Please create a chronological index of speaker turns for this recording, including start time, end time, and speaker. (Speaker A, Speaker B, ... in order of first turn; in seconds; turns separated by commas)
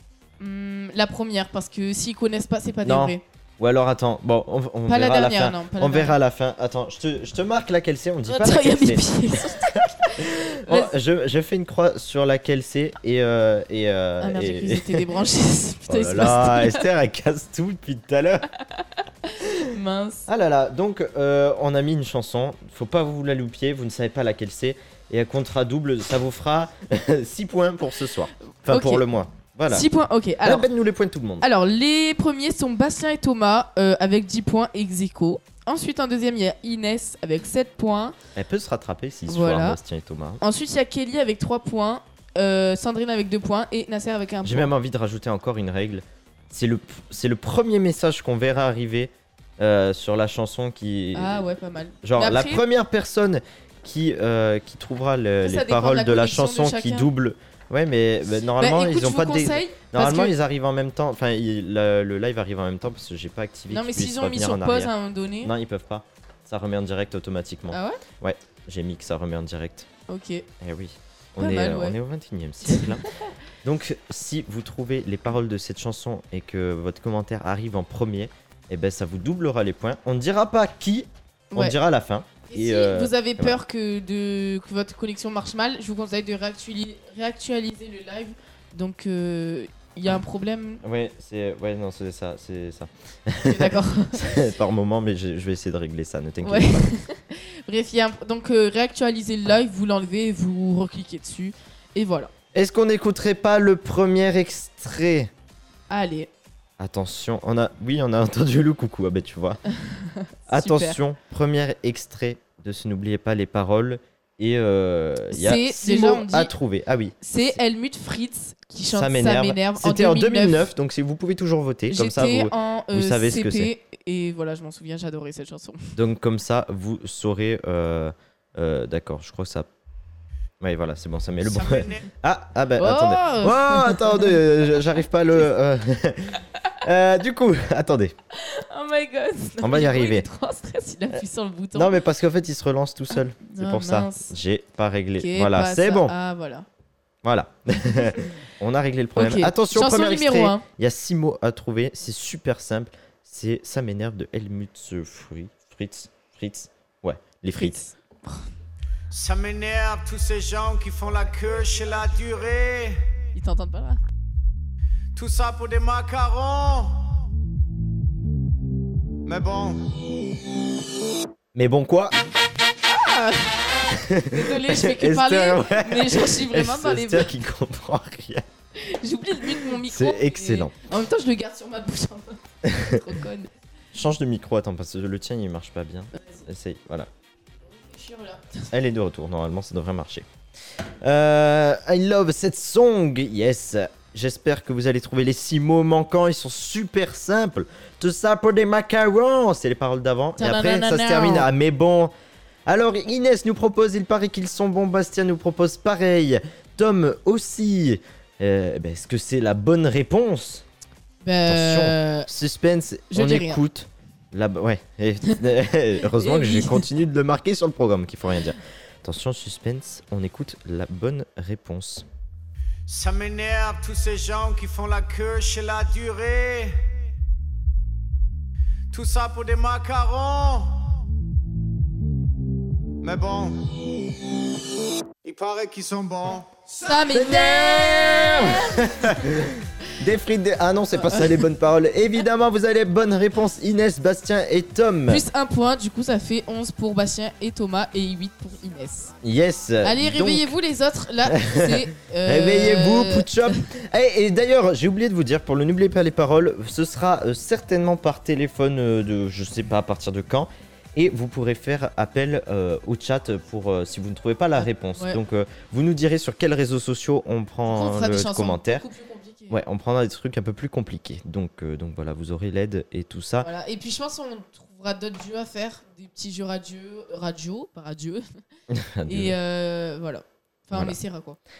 Speaker A: 0.4-3.2, Speaker B: 2.8-15.1, Speaker A: 4.9-6.2, Speaker A: 8.3-10.9, Speaker A: 14.2-16.9, Speaker B: 15.9-18.5, Speaker A: 19.2-20.3, Speaker B: 20.3-29.9, Speaker A: 28.6-29.0, Speaker A: 29.7-30.7, Speaker B: 30.4-31.5, Speaker A: 31.4-38.1, Speaker B: 38.3-40.4, Speaker A: 39.3-39.8, Speaker A: 40.4-44.7, Speaker B: 44.4-51.4, Speaker A: 51.1-52.6, Speaker B: 52.0-69.9, Speaker A: 55.4-57.1, Speaker A: 58.6-60.3, Speaker A: 63.7-65.5, Speaker A: 67.7-68.0, Speaker A: 70.1-70.5, Speaker B: 70.6-73.0, Speaker A: 71.4-72.0, Speaker A: 72.7-73.0, Speaker B: 73.6-83.6, Speaker A: 82.5-90.8, Speaker B: 90.8-96.9, Speaker A: 93.4-94.3, Speaker A: 96.4-102.3, Speaker B: 102.5-105.3, Speaker A: 105.9-106.3, Speaker B: 106.8-109.6, Speaker A: 109.9-111.0, Speaker B: 110.5-117.2, Speaker A: 115.3-116.5, Speaker A: 117.2-120.6, Speaker B: 118.9-123.7, Speaker A: 121.9-125.9, Speaker B: 125.9-129.7, Speaker B: 130.6-138.2, Speaker C: 131.4-132.1, Speaker A: 132.8-134.3, Speaker A: 138.3-142.0, Speaker B: 139.6-140.2, Speaker B: 141.7-146.1, Speaker A: 143.4-144.3, Speaker A: 145.2-146.7, Speaker B: 147.2-157.9, Speaker A: 149.2-150.6, Speaker A: 157.5-158.4, Speaker C: 159.1-163.1, Speaker A: 163.3-164.0, Speaker C: 165.1-167.1, Speaker C: 169.2-170.0, Speaker B: 171.5-172.1, Speaker A: 172.9-177.3, Speaker B: 173.9-178.4, Speaker A: 178.8-183.5, Speaker B: 179.6-180.7, Speaker B: 182.7-183.0, Speaker B: 183.9-187.1, Speaker A: 186.2-186.4, Speaker A: 187.7-188.7, Speaker B: 188.7-190.3, Speaker B: 191.0-202.1, Speaker A: 200.4-201.5, Speaker B: 202.7-210.6, Speaker A: 211.2-212.3, Speaker B: 211.4-222.1, Speaker A: 213.1-213.6, Speaker A: 216.1-216.9, Speaker C: 222.9-226.9, Speaker C: 228.9-230.9, Speaker C: 233.0-233.7, Speaker C: 235.2-237.1, Speaker A: 236.8-239.2, Speaker B: 237.1-245.2, Speaker A: 240.9-241.4, Speaker A: 245.1-249.1, Speaker B: 249.2-250.5, Speaker A: 249.8-253.6, Speaker B: 251.3-268.9, Speaker A: 264.6-265.2, Speaker A: 267.7-269.6, Speaker B: 269.5-273.5, Speaker A: 273.4-278.2, Speaker B: 278.7-279.4, Speaker A: 279.1-281.4